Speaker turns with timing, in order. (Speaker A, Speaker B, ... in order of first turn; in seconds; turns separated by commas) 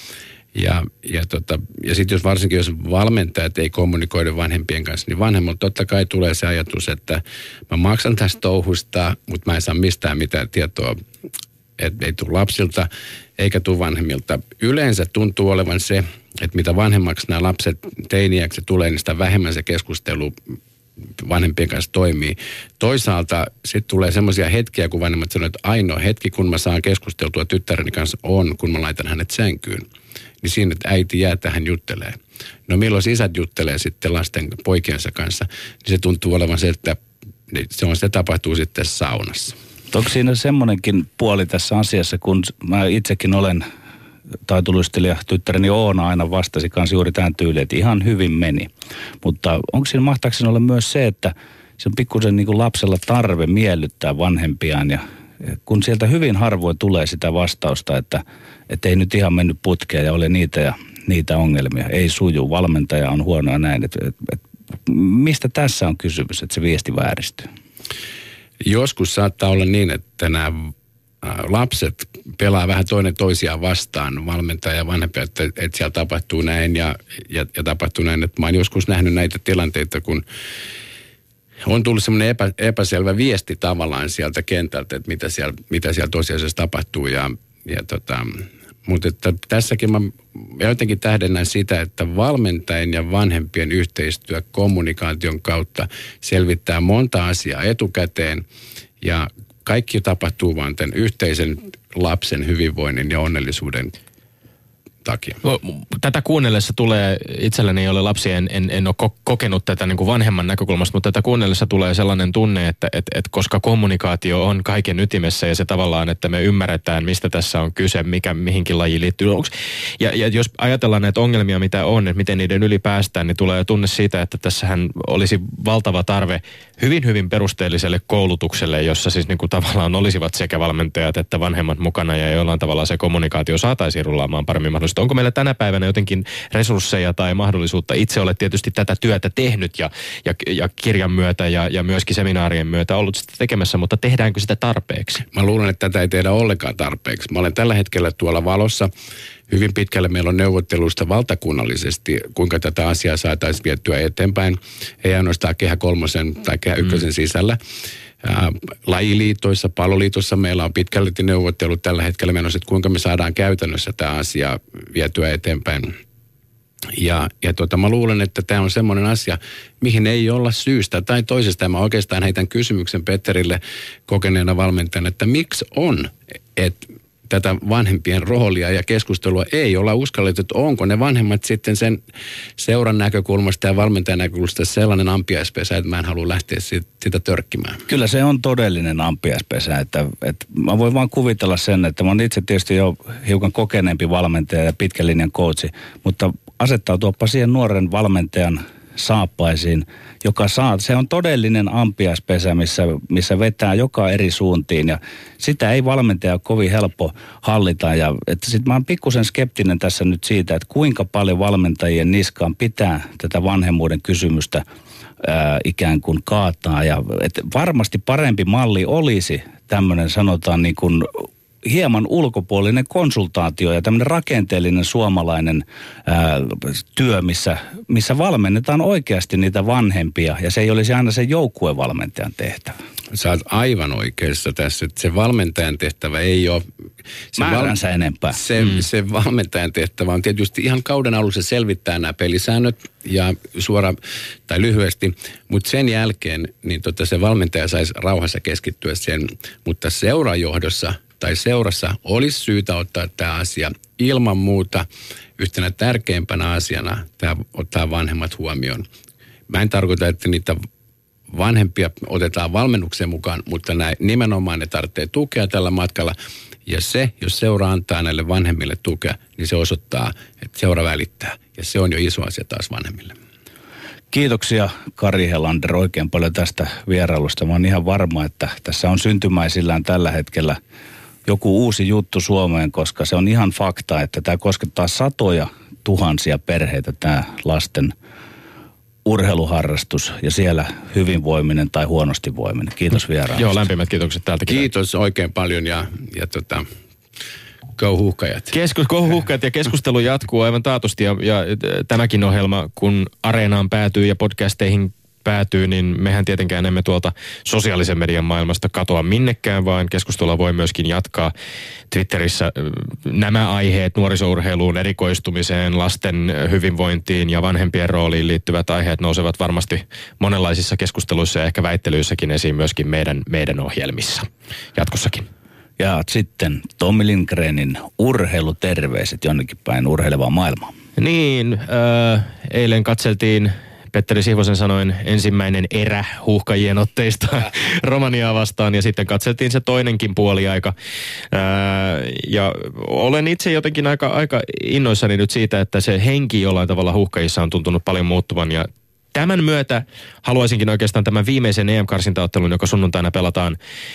Speaker A: 0.5-11.0, Speaker A: 11.8-20.4, Speaker A: 21.2-29.9, Speaker A: 30.4-37.0, Speaker A: 37.5-39.6, Speaker B: 39.9-43.6, Speaker B: 44.5-48.7, Speaker B: 49.2-67.5, Speaker A: 68.7-70.7, Speaker A: 71.2-80.2, Speaker A: 81.7-98.5, Speaker A: 99.0-104.0, Speaker A: 105.0-105.4, Speaker C: 105.4-145.2, Speaker A: 145.3-148.9, Speaker A: 149.5-157.6, Speaker A: 158.2-166.0, Speaker A: 167.0-182.0, Speaker A: 182.6-187.8, Speaker B: 187.9-214.6, Speaker B: 215.2-232.8, Speaker A: 233.1-236.6, Speaker A: 237.3-237.8, Speaker B: 237.4-238.4, Speaker A: 238.3-254.9, Speaker A: 255.4-258.9, Speaker A: 259.5-260.6, Speaker A: 261.3-273.2, Speaker B: 274.1-280.6, Speaker B: 281.3-287.9, Speaker B: 289.1-293.5, Speaker C: 293.3-294.7, Speaker A: 294.5-296.7, Speaker A: 297.8-298.5, Speaker C: 298.5-311.3, Speaker C: 311.9-325.3, Speaker B: 325.8-330.7, Speaker C: 331.0-340.7, Speaker C: 341.3-353.6